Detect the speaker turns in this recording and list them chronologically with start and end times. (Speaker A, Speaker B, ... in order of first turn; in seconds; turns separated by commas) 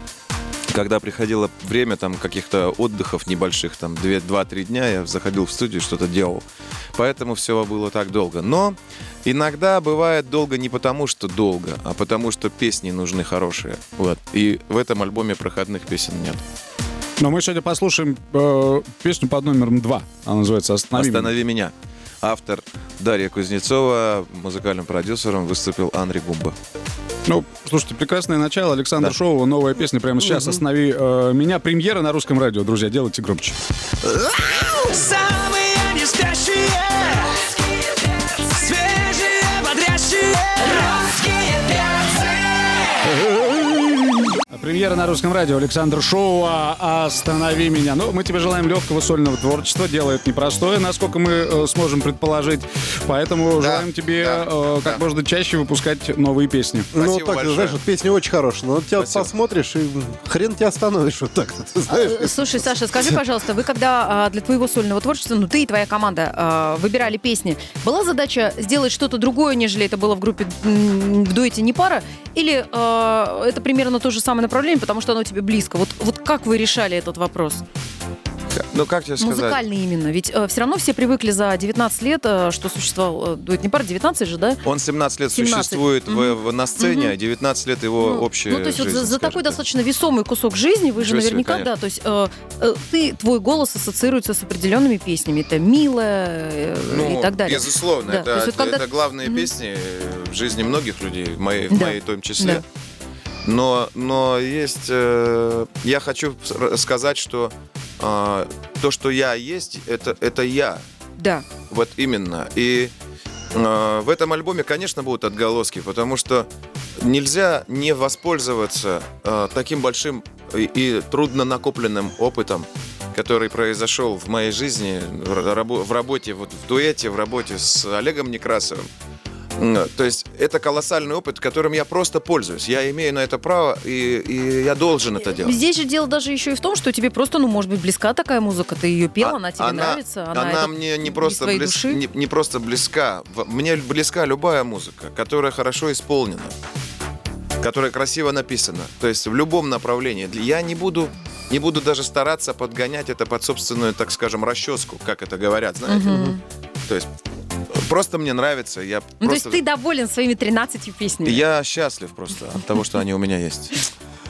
Speaker A: 0.7-16.4, Speaker B: 17.2-21.3, Speaker A: 20.9-26.6, Speaker B: 27.2-33.5, Speaker C: 34.1-43.1, Speaker B: 43.1-44.0, Speaker B: 44.5-56.9, Speaker A: 53.6-55.0, Speaker D: 56.9-62.4, Speaker A: 56.9-57.8, Speaker A: 59.0-59.3, Speaker E: 61.9-77.6, Speaker A: 78.5-79.6, Speaker E: 79.2-84.6, Speaker A: 84.6-89.6, Speaker E: 85.3-87.1, Speaker E: 88.0-99.5, Speaker A: 91.0-91.7, Speaker A: 96.9-102.6, Speaker E: 101.7-102.6, Speaker A: 103.4-110.8, Speaker E: 111.2-111.5, Speaker A: 111.7-112.9, Speaker A: 113.5-128.9, Speaker A: 129.6-135.6, Speaker E: 135.3-142.0, Speaker A: 139.2-146.5, Speaker A: 147.6-156.3, Speaker E: 155.9-156.4, Speaker A: 157.7-159.6, Speaker E: 159.2-161.4, Speaker A: 161.2-163.8